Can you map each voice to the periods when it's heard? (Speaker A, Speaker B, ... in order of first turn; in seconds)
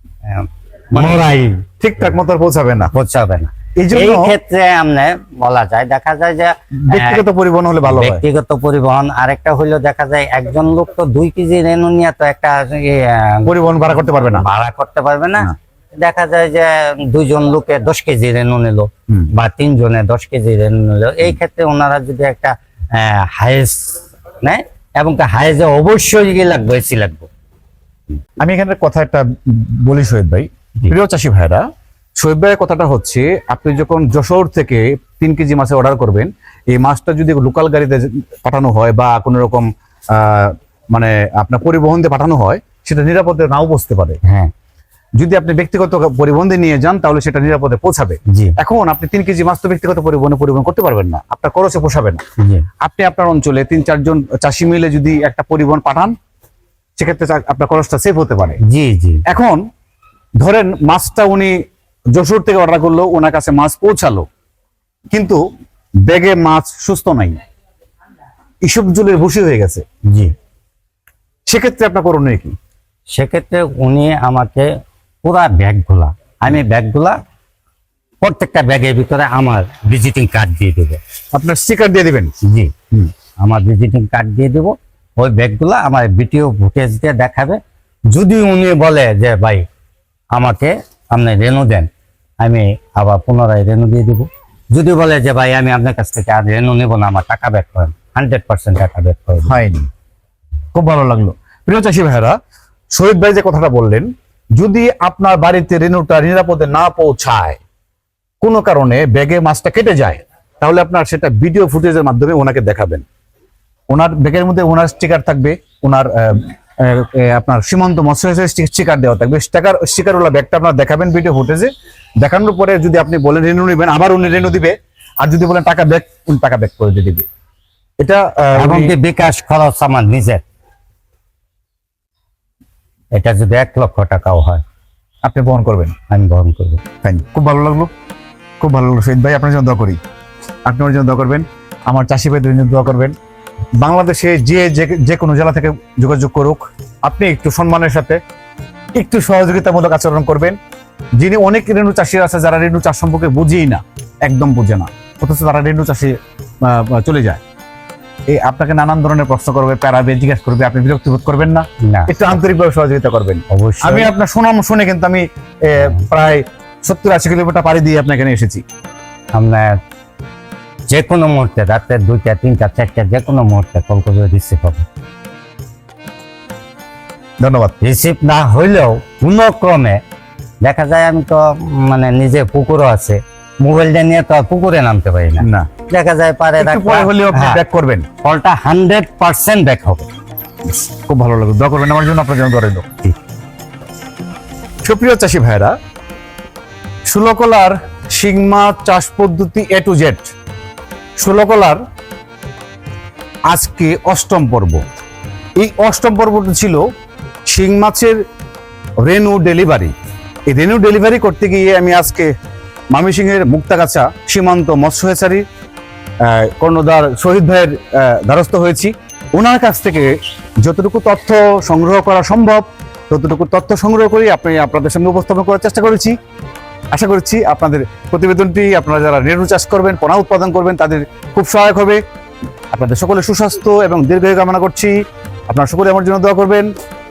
Speaker A: 0.2-1.6, 2.9-7.2, 7.9-13.5, 14.3-15.5, 16.0-27.3, 44.2-44.5, 48.3-48.5, 58.6-59.2, 73.1-74.7, 75.2-77.2, 78.2-81.0, 82.5-82.7, 83.4-87.6, 88.1-89.6, 90.3-91.9, 92.4-99.5, 128.6-130.4, 133.1-134.6, 136.1-136.8, 161.8-162.2, 163.5-164.1, 169.3-169.8, 170.9-174.8, 177.8-180.0, 180.6-187.6, 188.2-190.1
Speaker B: 0.9-1.2, 1.8-2.9, 3.8-4.3, 6.8-8.2, 13.4-14.4, 28.4-31.6, 32.2-44.2, 45.2-52.2, 52.8-56.1, 57.0-58.6, 59.3-59.6, 60.4-61.6, 62.1-64.3, 65.1-65.4, 66.0-67.4, 68.6-69.8, 71.5-72.5, 81.3-82.3, 99.4-99.9, 100.7-102.4, 102.9-107.6, 108.4-113.0, 113.9-127.2, 128.0-128.9, 135.2-135.9, 137.0-137.9, 138.6-140.0, 140.7-143.1, 143.8-148.2, 148.9-150.6, 151.2-157.4, 158.3-168.6, 177.4-177.8, 185.4-185.7, 186.6-188.1, 190.7-192.9, 194.8-195.7, 197.1-200.3, 201.2-201.8, 203.5-204.8, 205.6-206.8, 207.5-208.2, 209.0-209.9, 210.4-212.3, 212.9-215.4, 216.2-226.2, 226.9-232.0, 232.7-234.9, 235.5-236.7